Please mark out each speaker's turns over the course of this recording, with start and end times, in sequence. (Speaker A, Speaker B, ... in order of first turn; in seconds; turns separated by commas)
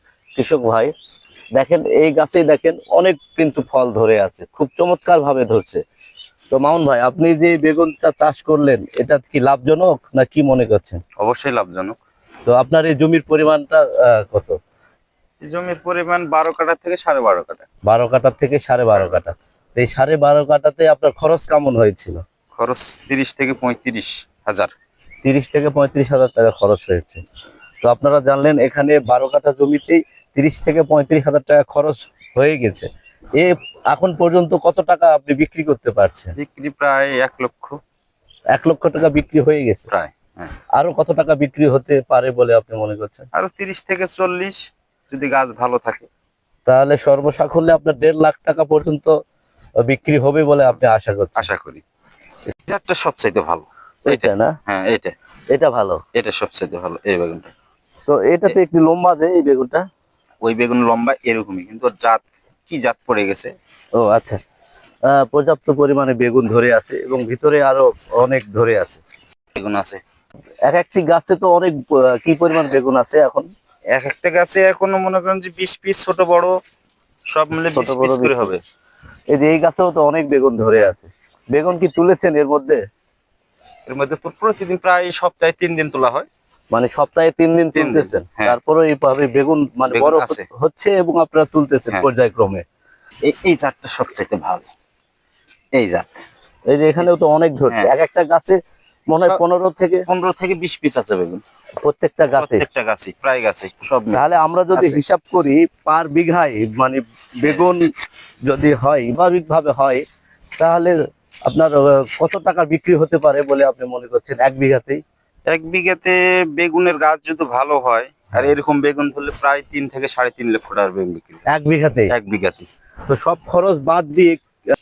Speaker A: 0.4-0.9, Speaker A: 1.6-5.8, Speaker A: 6.5-11.0, Speaker B: 11.2-12.0, Speaker A: 12.4-14.6, Speaker B: 15.4-17.6, Speaker A: 17.9-22.2, Speaker B: 22.6-24.7, Speaker A: 25.2-27.2, Speaker A: 27.8-36.4, Speaker B: 36.4-37.8, Speaker A: 38.5-39.9, Speaker B: 39.9-40.5, Speaker A: 40.8-43.3, Speaker B: 43.3-46.1, Speaker A: 46.6-49.1, Speaker A: 49.8-51.5, Speaker B: 51.4-51.8, Speaker B: 52.6-55.1, Speaker A: 54.0-54.6, Speaker A: 55.5-56.0, Speaker B: 56.1-57.5, Speaker A: 58.1-59.8, Speaker B: 60.4-63.5, Speaker A: 64.0-64.4, Speaker A: 65.1-69.0, Speaker B: 69.5-70.0, Speaker A: 70.7-73.5, Speaker B: 73.9-76.5, Speaker B: 77.3-78.6, Speaker A: 77.7-78.3, Speaker A: 79.3-82.8, Speaker B: 83.9-86.3, Speaker A: 86.7-92.6, Speaker B: 87.7-88.5, Speaker B: 89.9-90.4, Speaker B: 93.2-94.7, Speaker B: 95.7-96.2, Speaker A: 96.7-100.0, Speaker B: 100.1-101.4, Speaker A: 101.8-102.6, Speaker B: 102.3-105.0, Speaker A: 104.1-107.8, Speaker A: 108.5-110.0, Speaker A: 110.6-110.9, Speaker A: 111.5-115.0, Speaker B: 115.5-121.5, Speaker A: 121.5-122.1, Speaker B: 122.1-122.7, Speaker A: 123.1-124.4